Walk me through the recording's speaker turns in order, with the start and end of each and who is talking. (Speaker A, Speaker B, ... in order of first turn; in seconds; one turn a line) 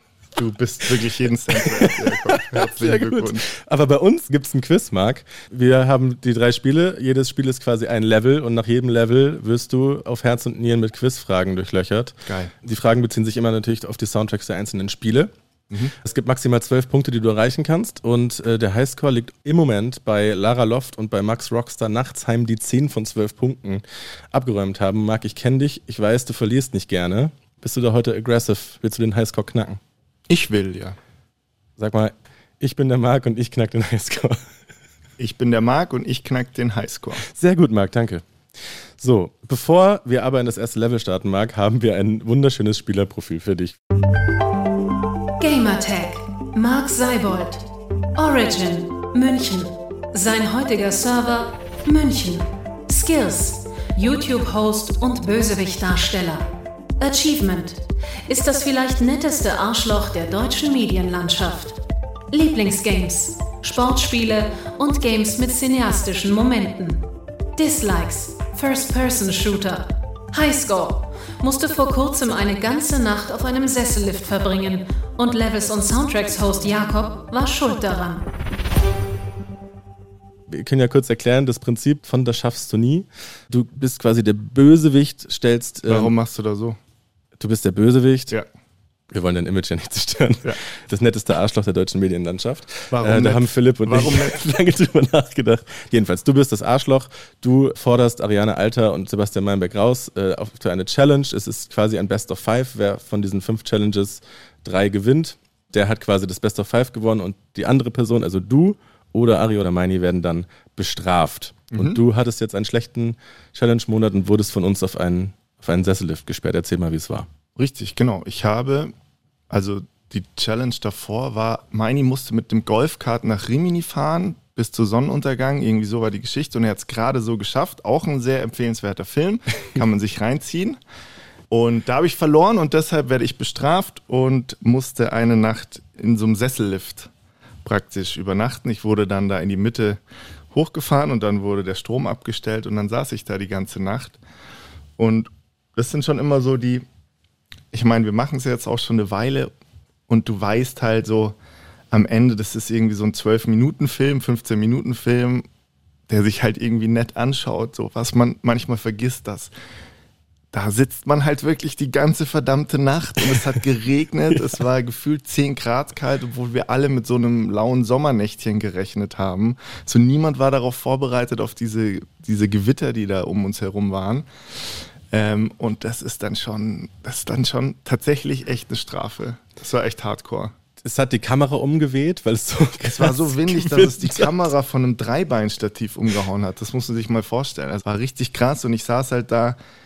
Speaker A: 0.3-3.5
Speaker B: 1.5-15.3
Speaker A: 12.3-12.5
Speaker B: 16.0-29.8
Speaker A: 30.3-31.0
Speaker B: 31.8-34.4
Speaker A: 35.2-37.2
Speaker B: 37.2-38.2
Speaker B: 39.0-43.8
Speaker C: 45.4-56.5
Speaker C: 57.0-61.8
Speaker C: 62.3-78.3
Speaker B: 80.5-86.1
Speaker A: 85.9-86.8
Speaker B: 87.4-88.4
Speaker B: 89.1-117.3
Speaker A: 92.9-94.4
Speaker A: 111.7-112.0
Speaker A: 117.6-118.9
Speaker A: 119.5-130.8
Speaker A: 131.5-137.1
Speaker A: 137.6-140.0
Speaker A: 140.5-144.2
Speaker A: 145.0-146.9
Speaker A: 147.7-149.5
Speaker A: 150.1-151.4
Speaker A: 151.9-155.5
Speaker A: 156.1-159.5
Speaker A: 160.5-174.3
Speaker A: 175.1-180.5
Speaker B: 180.8-184.4
Speaker A: 182.8-189.6